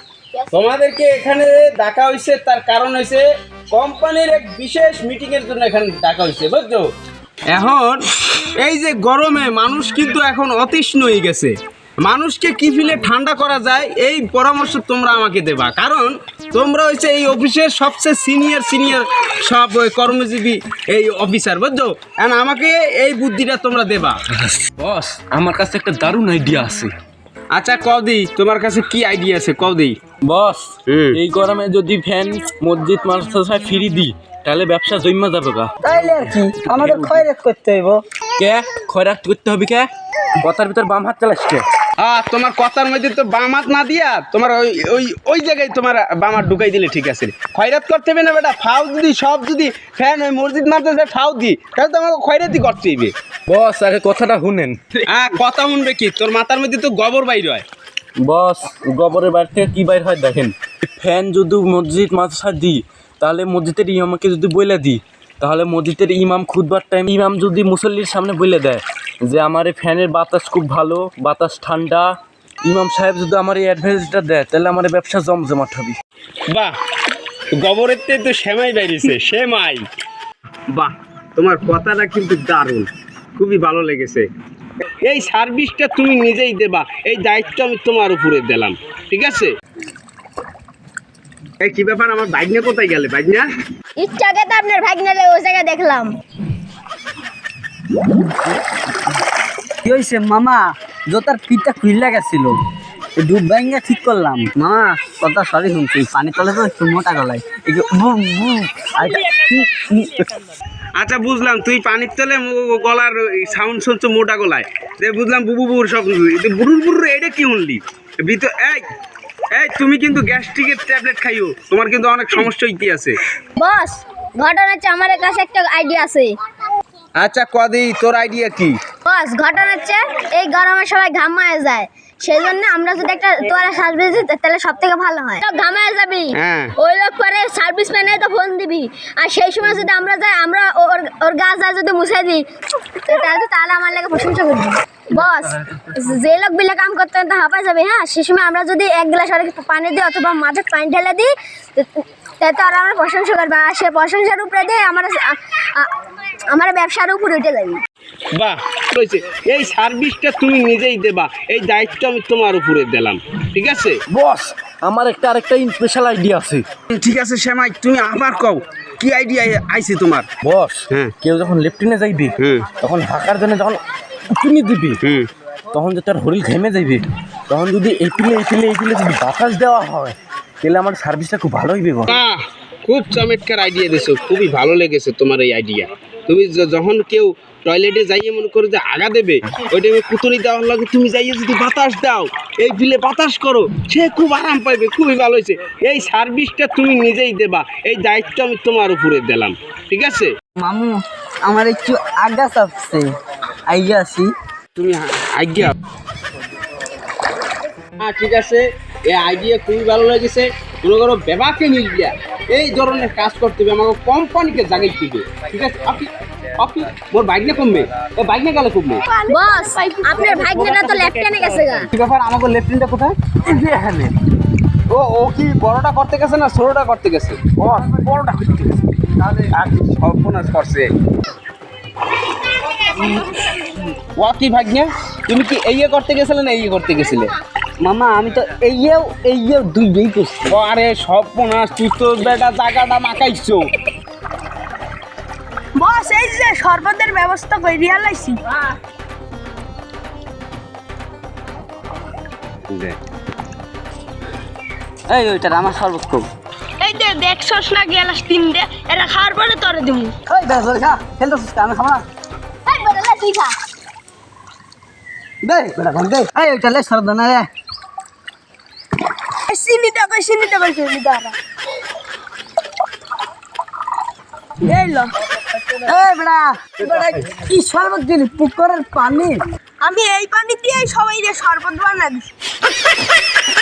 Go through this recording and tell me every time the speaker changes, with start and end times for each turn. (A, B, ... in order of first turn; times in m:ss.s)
0:00.5-0:06.8 A
0:07.5-0:24.2 A
0:24.6-0:26.9 B
0:27.5-0:30.0 A
0:30.2-0:35.7 B
0:30.9-0:31.2 A
0:35.8-0:38.0 C
0:36.6-0:37.2 B
0:38.4-0:41.6 B
0:42.0-0:53.1 A
0:53.5-0:54.8 B
0:55.1-0:57.6 A
0:58.2-1:12.1 B
1:12.6-1:16.0 B
1:17.5-1:19.8 A
1:20.7-1:24.3 A
1:25.0-1:29.5 A
1:31.6-1:33.5 A
1:34.0-1:36.1 D
1:39.8-1:42.5 C
1:43.2-1:50.4 C
1:51.0-1:58.8 A
1:59.5-2:03.2 A
2:03.6-2:06.3 D
2:07.2-2:08.8 A
2:09.0-2:22.4 D
2:16.3-2:16.7 A
2:23.0-2:35.9 D
2:36.5-2:37.8 D
2:38.3-2:44.0 A
2:44.1-2:46.6 B
2:46.9-2:50.3 A
2:50.4-2:53.8 B
2:52.4-2:52.7 A
2:54.3-2:55.0 B
2:55.0-2:55.3 A
2:55.7-3:02.2 B
3:02.1-3:20.3 A
3:20.6-3:23.1 C
3:23.7-3:24.3 C
3:24.8-3:25.7 A
3:28.0-3:39.0 A
3:39.1-3:40.3 E
3:39.3-3:41.9 D
3:41.9-3:43.2 A
3:43.5-3:44.1 B
3:44.9-3:50.9 A
3:54.1-3:57.3 A
3:57.8-4:00.4 C
4:00.4-4:03.7 A
4:05.8-4:08.4 E
4:12.7-4:13.0 A
4:15.1-4:16.3 C
4:16.8-4:20.1 E
4:20.2-4:22.0 C
4:22.7-4:23.5 D
4:25.4-4:27.5 C
4:29.5-4:31.4 E
4:34.6-4:35.1 E
4:35.7-4:39.4 C
4:39.8-4:42.3 E